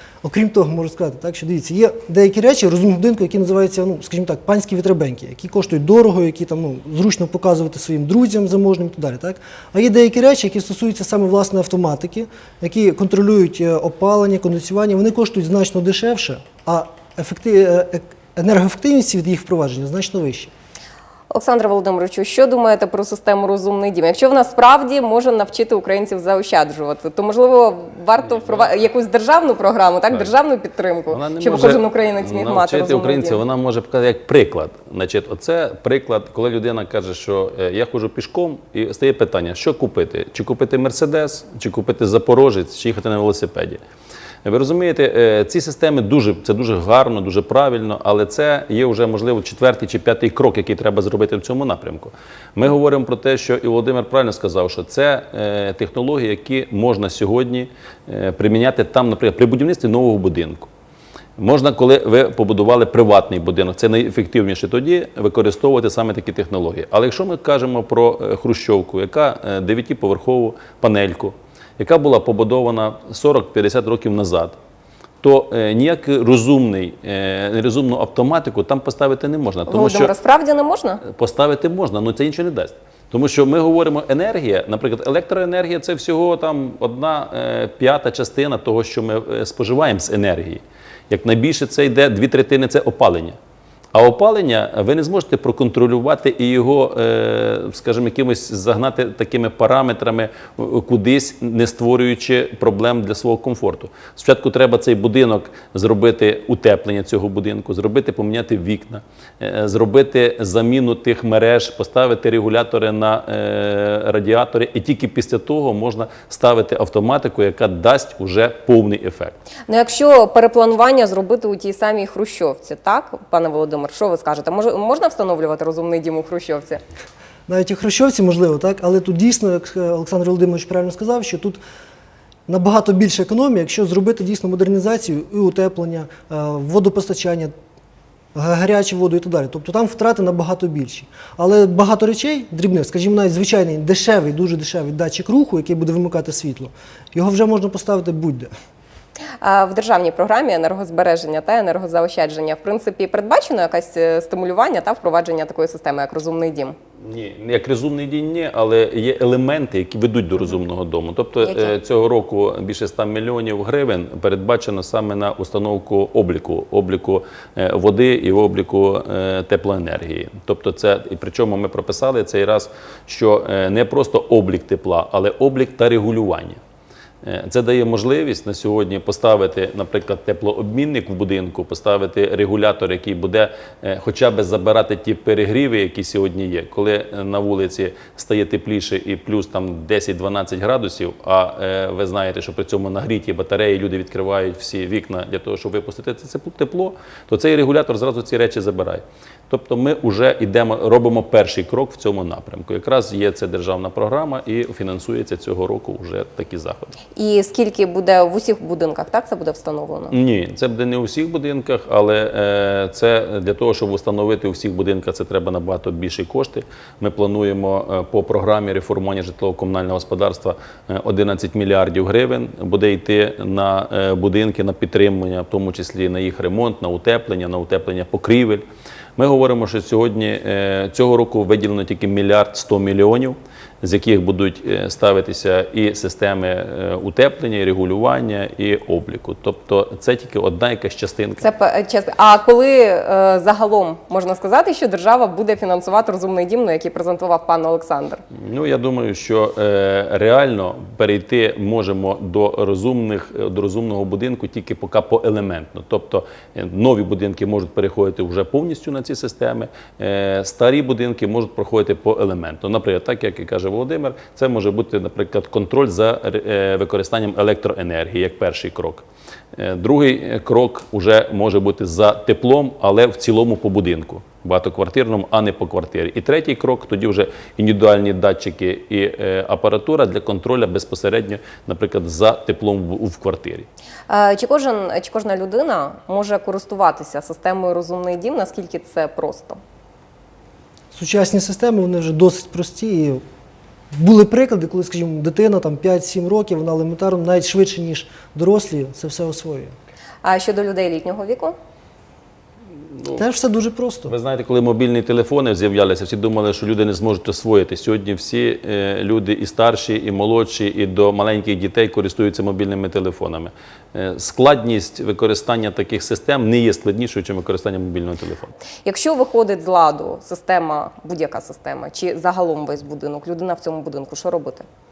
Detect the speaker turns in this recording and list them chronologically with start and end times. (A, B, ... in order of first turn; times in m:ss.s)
0:00.2-0:20.5 A
0:21.3-0:33.4 B
0:28.3-0:28.7 C
0:31.1-0:43.8 C
0:44.4-1:00.7 C
1:01.4-1:14.6 C
1:15.2-1:20.1 C
1:19.7-1:21.0 B
1:21.1-1:33.4 C
1:33.9-1:59.4 C
1:59.7-2:06.8 B
2:07.5-2:11.6 A
2:12.5-2:17.5 A
2:18.3-2:28.5 A
2:29.4-2:36.8 B
2:37.0-2:56.6 C
2:41.4-2:41.8 B
2:57.2-3:27.0 C
3:27.2-3:30.2 B
3:30.1-3:48.6 C
3:49.2-4:01.5 C
4:01.4-4:08.2 B
4:08.4-4:43.7 C
4:44.1-4:49.6 B
4:50.9-4:53.2 A
4:53.9-4:59.8 A
5:00.2-5:01.5 B
5:03.1-5:04.1 A
5:04.1-5:18.5 C
5:18.8-5:24.7 B